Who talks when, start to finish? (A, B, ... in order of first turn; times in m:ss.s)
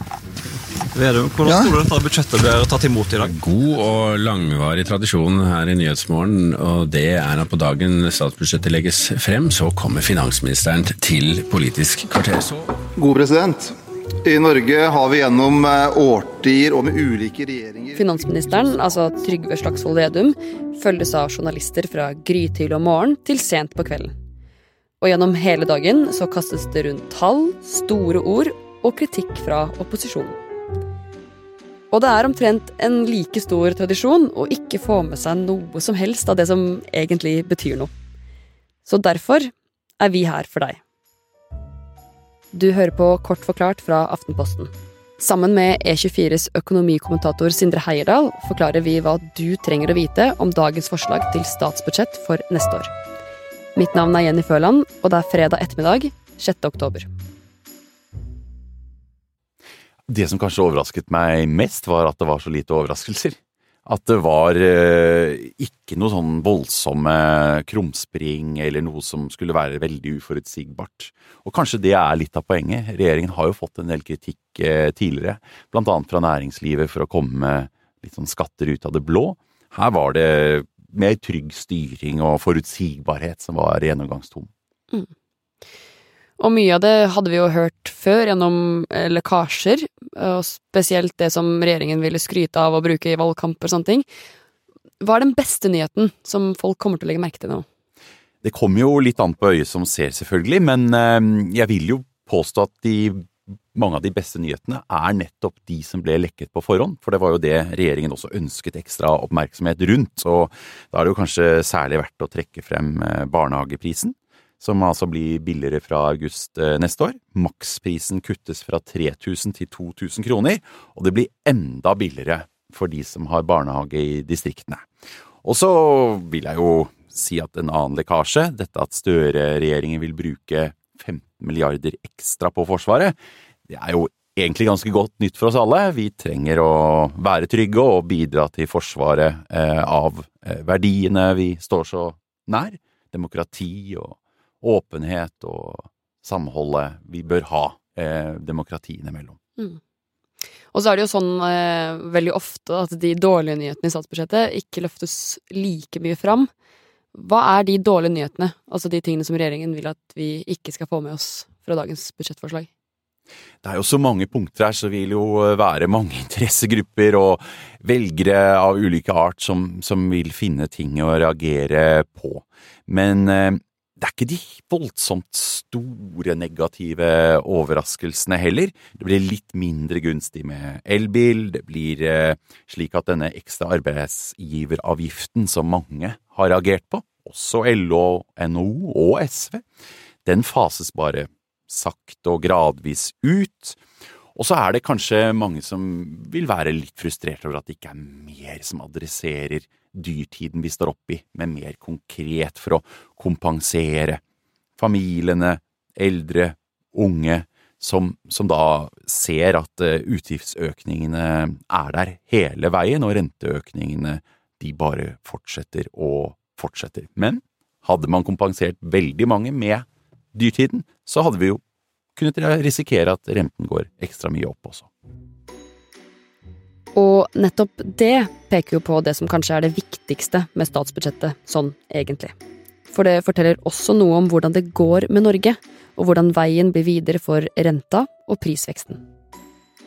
0:01.0-0:03.2 A
0:01.4-0:02.2 B
0:03.2-0:12.5 C
0:13.0-0:13.7 B
0:14.2-0:18.1 B
0:18.0-0:24.1 D
0:25.0-0:30.4 D
0:31.9-0:37.9 D
0:38.8-0:40.8 D
0:42.5-0:52.9 D
0:53.7-0:57.1 D
1:00.1-1:24.5 E
1:26.4-1:34.0 D
1:35.0-1:37.6 D
1:38.4-2:04.8 E
2:05.4-2:13.1 E
2:13.7-2:29.4 E
2:30.7-2:36.5 D
2:37.1-2:42.7 D
2:43.6-3:09.6 E
3:10.2-3:13.8 E
3:14.4-3:24.2 E
3:24.8-3:41.6 E
3:42.2-3:44.9 E
3:46.9-3:52.3 D
3:52.9-3:59.0 D